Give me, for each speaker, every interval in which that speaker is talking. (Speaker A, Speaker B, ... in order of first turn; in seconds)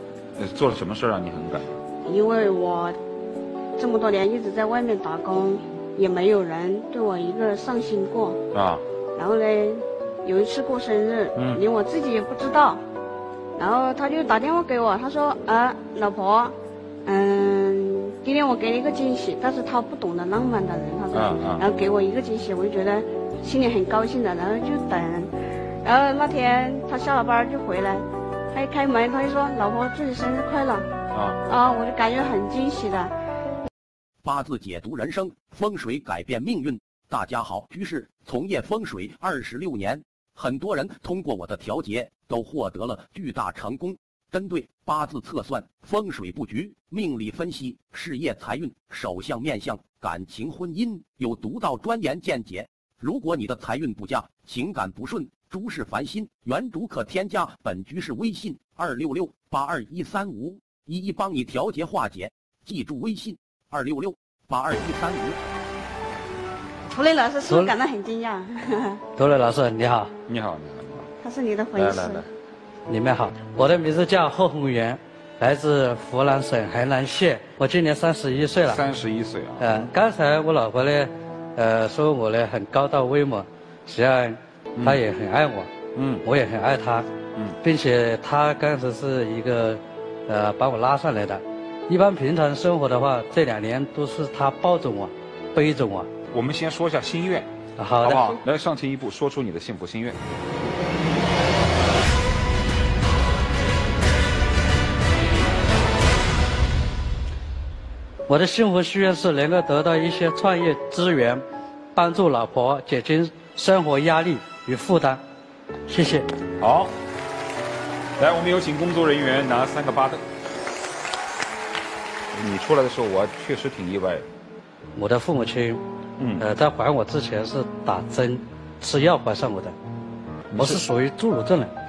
Speaker A: 0.4-1.7, 8.5-8.8, 11.3-11.6, 21.1-21.6, 31.1-31.4, 70.3-71.1, 71.7-72.3, 78.6-79.8, 85.9-86.2, 96.3-97.5, 98.0-100.2, 116.6-116.9, 118.2-120.2, 122.3-124.2, 126.2-126.4, 130.5-130.8
Speaker B: 2.0-3.0, 3.8-8.4, 9.1-12.8, 13.6-30.9, 31.4-33.1, 66.9-69.0, 71.2-72.3
Speaker C: 34.2-65.4
Speaker D: 69.2-70.1, 72.9-78.8, 79.6-85.7, 86.2-87.1, 87.6-96.1, 97.8-98.2, 108.3-111.4, 111.9-115.2, 115.9-116.3, 125.0-125.8, 126.4-129.7, 130.6-131.7